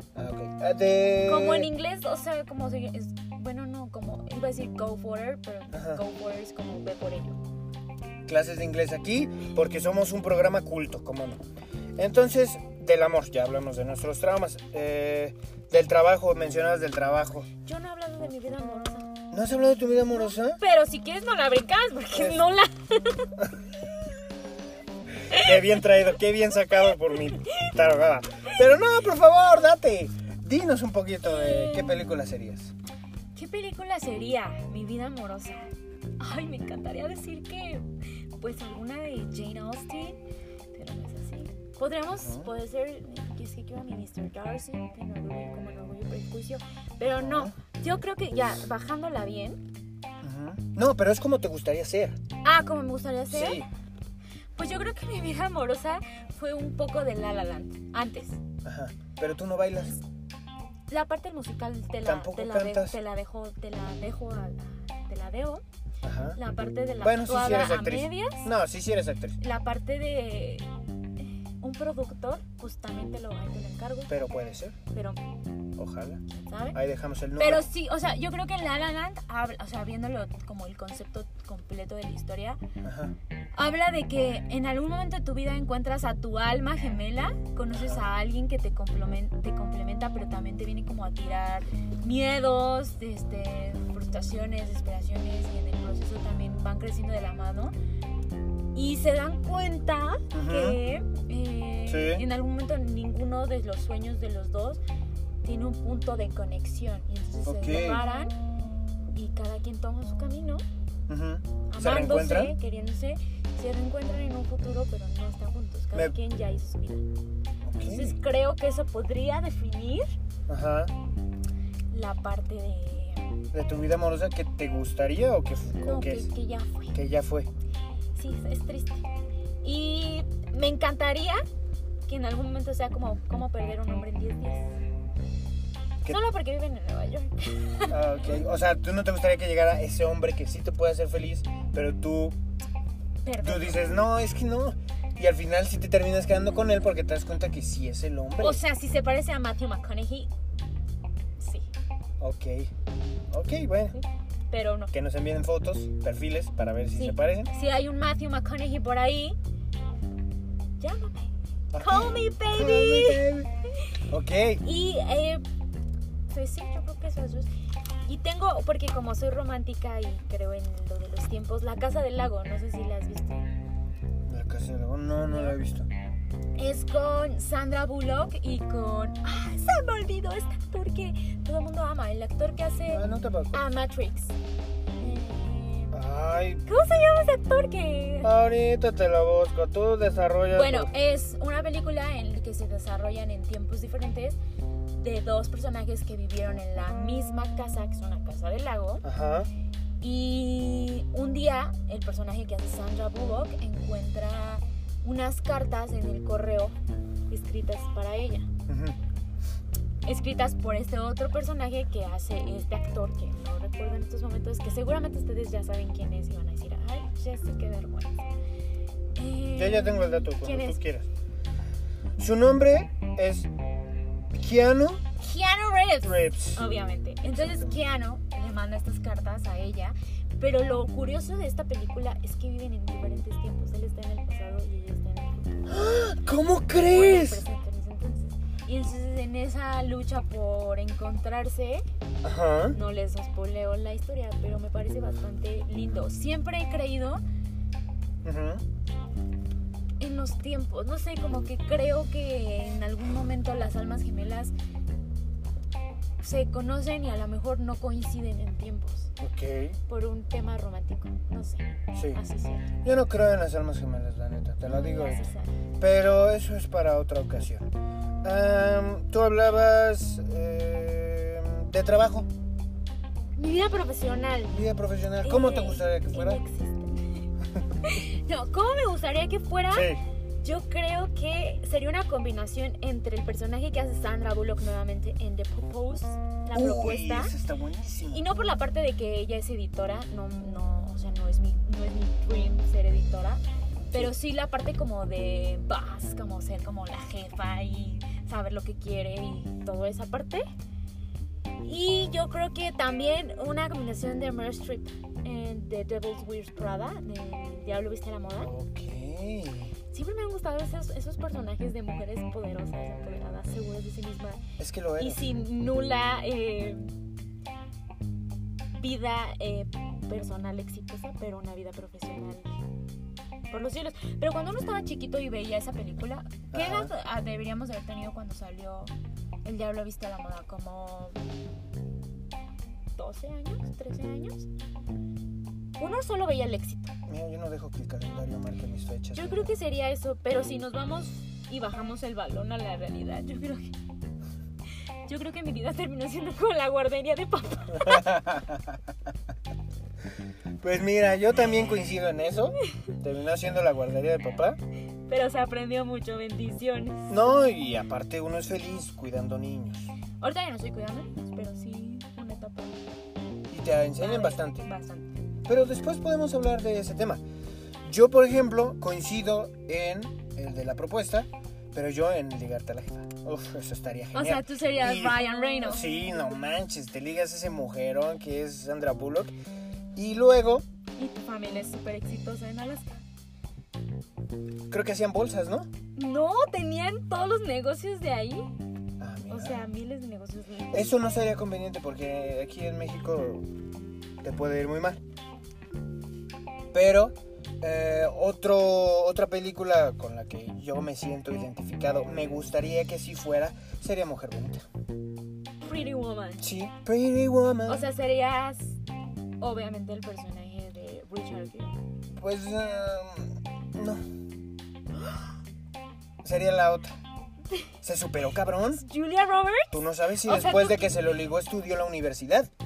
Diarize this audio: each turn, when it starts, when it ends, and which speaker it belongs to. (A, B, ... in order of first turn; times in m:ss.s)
0:00.2-0:01.7 A
0:01.2-0:07.4 B
0:05.7-0:06.0 A
0:08.3-0:11.4 A
0:12.0-0:17.5 A
0:17.6-0:19.1 B
0:19.3-0:20.6 A
0:20.1-0:23.4 B
0:22.1-0:22.5 A
0:25.3-0:32.7 A
0:27.4-0:27.7 B
0:31.2-0:32.0 B
0:33.4-0:37.9 B
0:38.4-0:40.2 B
0:40.7-0:49.6 B
0:42.2-0:42.5 A
0:47.1-0:47.5 A
0:50.2-0:52.2 A
0:52.4-0:53.6 B
0:53.3-0:53.7 A
0:54.6-0:58.4 B
0:58.6-1:00.0 A
1:00.9-1:05.6 B
1:02.0-1:03.0 A
1:06.0-1:06.4 A
1:06.4-1:08.5 B
1:07.0-1:09.4 A
1:09.4-1:10.7 B
1:11.2-1:14.1 B
1:14.1-1:14.8 A
1:14.9-1:15.2 B
1:15.8-1:16.2 A
1:16.3-1:16.8 B
1:16.7-1:17.6 A
1:17.4-1:22.6 B
1:22.8-1:23.2 A
1:23.6-1:37.7 B
1:27.7-1:28.0 A
1:38.7-1:44.8 B
1:40.3-1:40.8 A
1:41.9-1:42.2 A
1:45.4-1:48.3 B
1:47.4-1:48.0 A
1:49.2-1:50.6 B
1:51.1-1:52.6 A
1:51.7-1:57.0 B
1:57.6-1:58.2 A
1:57.8-2:00.2 B
2:00.5-2:00.9 A
2:01.9-2:03.4 B
2:03.5-2:06.3 A
2:05.8-2:07.0 B
2:06.9-2:07.5 A
2:08.2-2:09.1 B
2:09.6-2:11.4 B
2:12.1-2:14.7 B
2:16.1-2:18.1 B
2:17.9-2:22.4 A
2:23.2-2:23.9 B
2:23.4-2:28.6 A
2:28.4-2:30.3 B
2:31.4-2:31.7 B
2:32.2-2:32.7 A
2:33.3-2:34.0 A
2:33.9-2:34.9 B
2:34.9-2:37.5 A
2:36.9-2:39.4 B
2:40.8-2:43.3 B
2:41.7-2:43.5 A
2:44.1-2:44.6 A
2:44.6-2:45.4 B
2:46.3-2:47.5 B
2:48.1-2:53.4 B
2:54.3-2:55.9 A
2:55.3-2:55.6 B
2:56.6-3:04.4 B
3:02.9-3:03.6 A
3:05.0-3:06.0 B
3:05.9-3:06.6 A
3:06.6-3:08.3 B
3:08.2-3:10.9 A
3:10.5-3:14.4 B
3:15.0-3:19.1 B
3:19.0-3:19.5 A
3:20.0-3:26.8 B
3:27.3-3:28.5 B
3:28.7-3:29.0 A
3:30.1-3:38.3 B
3:39.2-3:40.8 B
3:39.5-3:41.1 A
3:42.2-3:43.5 A
3:44.3-3:45.0 A
3:45.2-3:55.8 B
3:46.0-3:46.6 A
3:47.2-3:47.8 A
3:55.7-3:57.4 A
3:56.8-4:01.8 B
4:02.2-4:02.8 A
4:02.7-4:07.2 B
4:08.2-4:08.6 A
4:10.0-4:14.5 B
4:16.2-4:19.1 B
4:19.2-4:19.8 A
4:19.9-4:22.7 B
4:21.9-4:22.2 A
4:22.8-4:25.3 A
4:24.6-4:25.6 B
4:25.8-4:27.7 A
4:28.2-4:32.3 A
4:33.4-4:34.6 B
4:34.5-4:36.4 A
4:35.2-4:37.3 B
4:37.8-4:47.4 B
4:39.7-4:40.0 A
4:46.5-4:48.2 A
4:48.1-5:00.5 B
5:01.6-5:08.5 B
5:08.4-5:09.7 A
5:09.9-5:14.4 B
5:14.6-5:15.3 A
5:15.0-5:16.9 B
5:18.7-5:22.6 B
5:23.5-5:28.9 B
5:26.5-5:26.9 A
5:29.4-5:31.2 B
5:33.0-5:34.5 B
5:35.8-5:36.9 B
5:37.1-5:39.5 A
5:39.1-5:43.8 B
5:45.1-5:48.2 B
5:47.7-5:48.8 A
5:50.6-5:54.6 A
5:55.1-5:57.2 B
5:57.1-5:59.9 A
6:00.2-6:02.8 B
6:03.5-6:04.7 A
6:04.0-6:05.1 B
6:05.5-6:07.2 A
6:07.8-6:19.4 A
6:14.1-6:16.2 B
6:20.0-6:20.6 A
6:21.0-6:23.0 B
6:24.7-6:25.7 A
6:26.0-6:28.5 B
6:29.0-6:29.6 A
6:29.3-6:31.0 B
6:30.7-6:33.5 A
6:34.2-6:35.0 A
6:36.7-6:44.7 A
6:45.6-6:46.5 B
6:46.4-6:47.9 A
6:47.7-6:48.8 B
6:49.4-6:51.8 B
6:52.1-6:54.0 A
6:56.2-6:57.0 A
6:57.8-6:58.8 A
6:58.7-7:01.0 B
6:59.7-7:02.5 A